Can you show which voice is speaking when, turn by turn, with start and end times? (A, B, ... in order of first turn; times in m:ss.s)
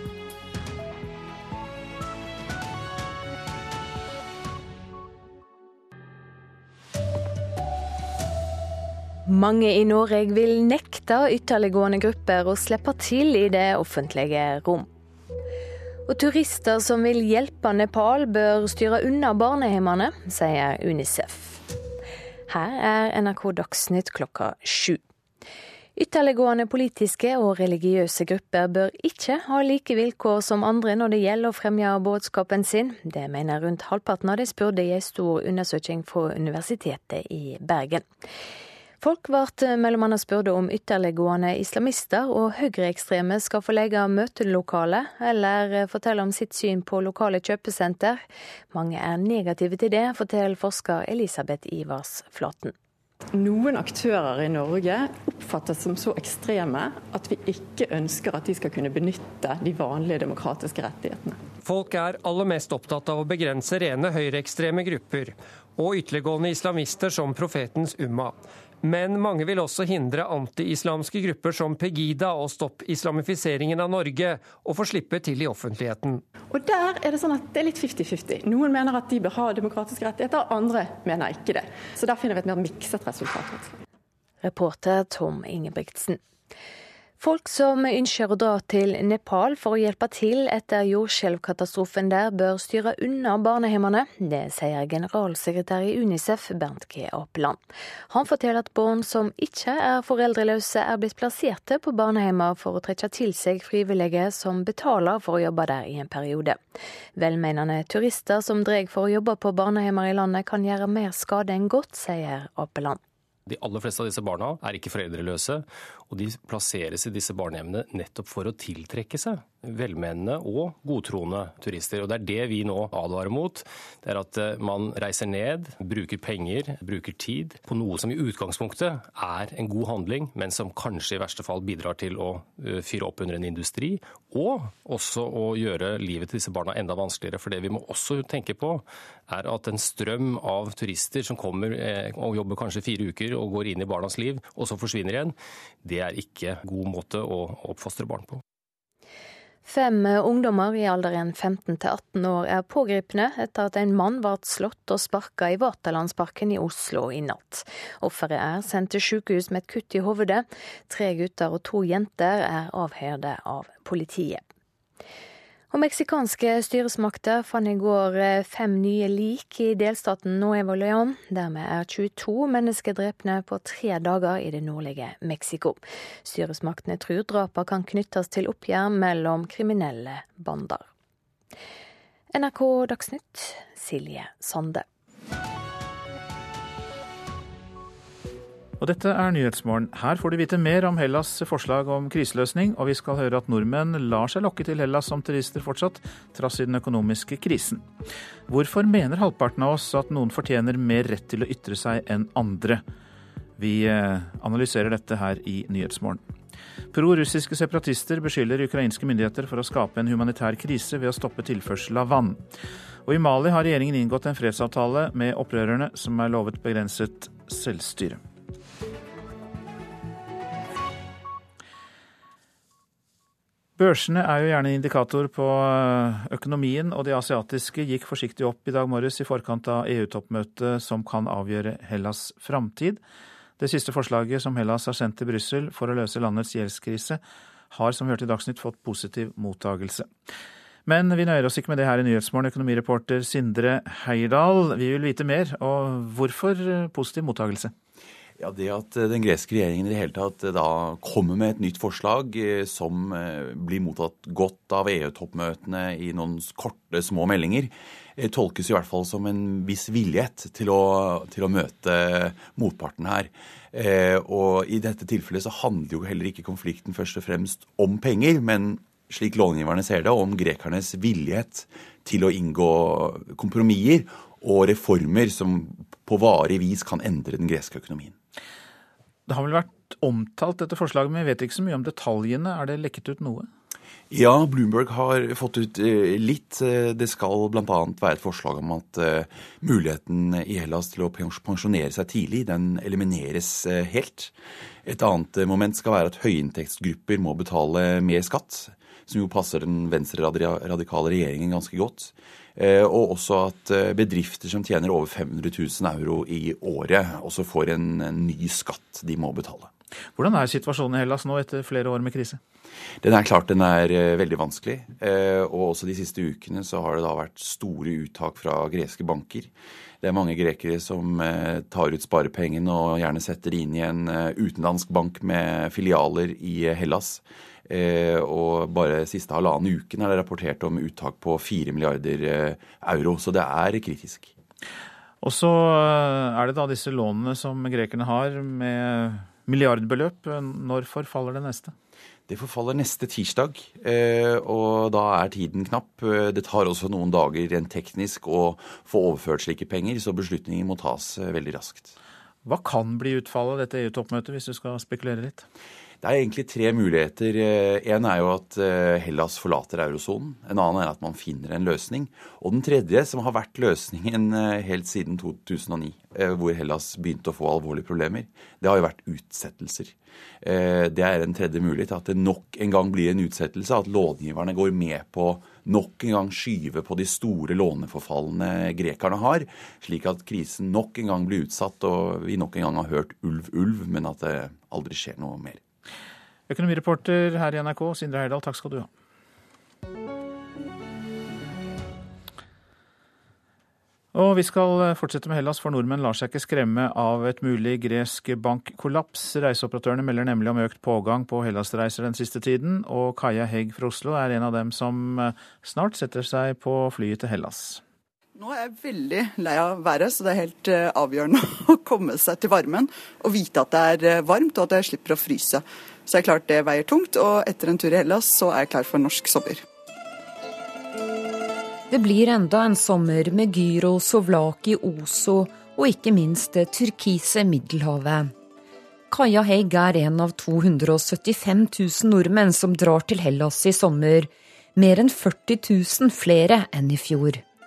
0:09.3-0:14.9 A
0:16.1-0:21.6 A
0:22.5-0:25.0 A
0:26.0-0:38.0 A
0:39.0-0:48.2 A
0:48.7-0:52.7 A
0:53.3-1:01.4 B
1:01.6-1:16.2 C
1:16.5-1:23.8 B
1:24.4-1:26.2 A
1:27.2-1:46.6 A
1:47.2-1:53.0 A
1:53.5-2:28.4 D
2:29.6-2:44.4 A
2:45.7-3:00.9 A
3:02.3-3:04.8 A
3:08.8-3:17.9 E
3:18.5-3:22.8 E
3:23.6-3:26.2 E
3:26.9-3:32.4 E
3:33.0-3:38.2 E
3:43.8-3:53.0 E
3:53.6-4:00.1 E
4:00.9-4:07.7 E
4:08.4-4:38.2 F
4:39.3-4:43.5 E
4:44.1-4:54.3 F
4:54.9-5:09.7 F
5:10.2-5:12.4 E
5:13.0-5:19.5 F
5:20.0-5:34.3 F
5:35.2-5:41.7 E
5:42.3-5:51.9 F
5:52.4-5:55.5 E
5:56.0-6:25.6 F
6:26.5-6:28.9 E
6:34.1-6:47.8 E
6:48.4-6:59.6 G
7:01.9-7:08.3 H
7:09.1-7:17.4 H